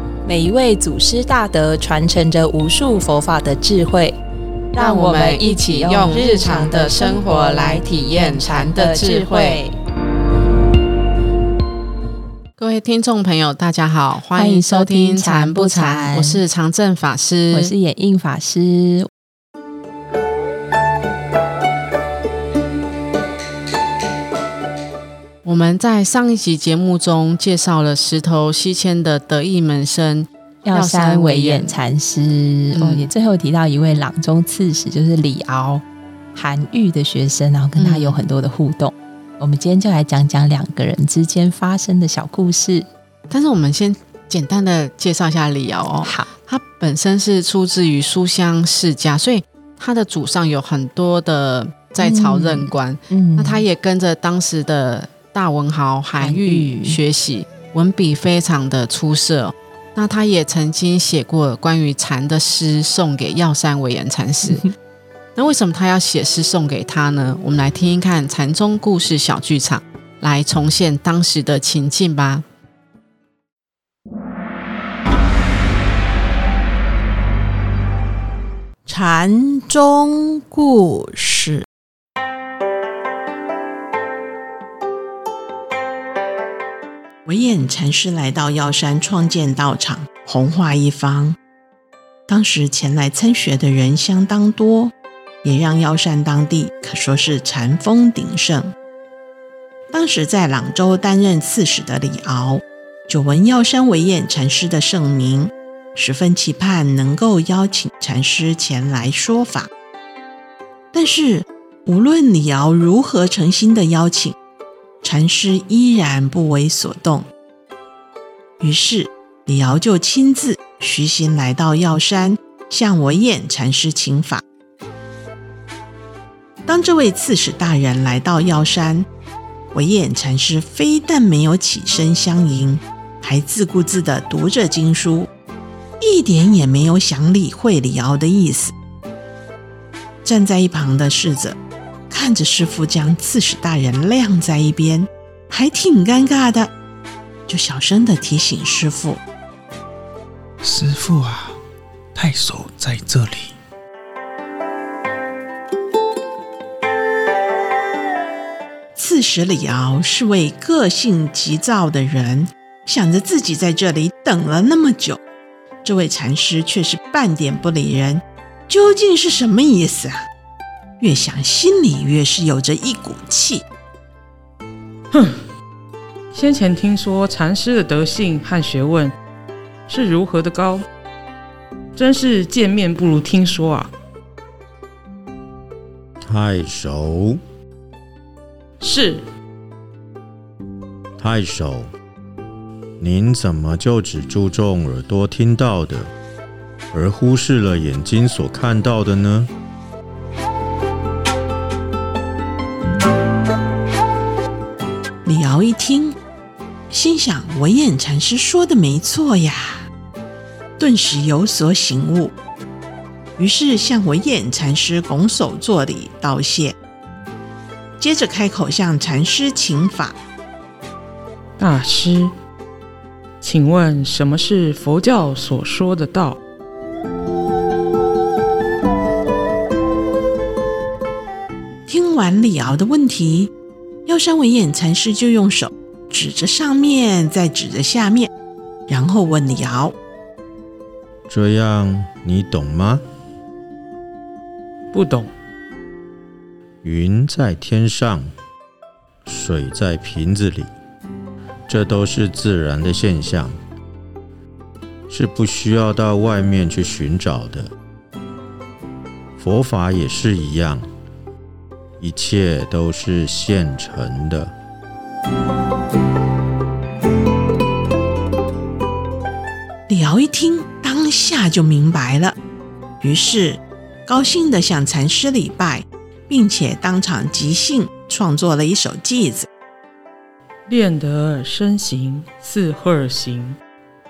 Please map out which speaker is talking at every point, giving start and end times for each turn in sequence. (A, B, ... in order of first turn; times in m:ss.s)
0:00.2-0:04.2 A
0:04.7-0:09.7 A
0:04.8-0:09.6 B
0:12.6-0:17.7 B
0:14.3-0:16.4 A
0:17.5-0:19.1 A
0:25.4-0:31.7 B
0:30.6-0:35.8 A
0:32.7-0:33.1 B
0:36.3-0:42.9 A
0:37.8-0:38.2 B
0:43.3-1:04.6 B
0:52.0-0:53.6 A
0:56.2-0:57.0 A
1:05.4-1:12.4 B
1:18.8-1:21.6 C
1:27.2-1:31.4 C
1:32.3-1:38.7 C
1:39.9-1:49.7 C
1:50.9-1:54.4 C
1:55.0-1:57.3 C
1:58.6-2:04.4 C
2:06.6-2:09.1 C
2:09.7-2:15.3 C
2:16.0-2:18.7 C
2:20.2-2:21.6 C
2:22.1-2:26.7 C
2:27.5-2:29.2 C
2:30.6-2:31.6 D
2:32.1-2:33.6 D
2:39.0-2:45.2 C
2:45.8-2:50.2 C
2:51.0-2:53.6 C
2:55.1-2:55.4 E
2:56.3-2:59.1 E
2:59.9-3:00.8 E
3:01.9-3:03.9 E
3:06.2-3:07.4 F
3:08.8-3:09.2 E
3:11.2-3:11.9 F
3:13.0-3:16.1 F
3:16.9-3:19.5 F
3:25.2-3:26.2 C
3:26.9-3:29.9 C
3:30.8-3:32.3 C
3:33.4-3:36.8 C
3:38.0-3:40.2 C
3:41.6-3:42.3 E
3:43.4-3:46.4 E
3:51.9-3:53.5 C
3:54.0-3:58.3 C
3:58.9-3:59.9 C
4:01.3-4:03.0 F
4:04.9-4:05.3 E
4:06.8-4:08.3 F
4:09.2-4:10.7 F
4:11.7-4:13.6 F
4:15.1-4:17.7 F
4:19.4-4:20.8 F
4:22.0-4:24.5 F
4:29.9-4:32.4 C
4:33.0-4:39.5 C
4:40.7-4:43.6 E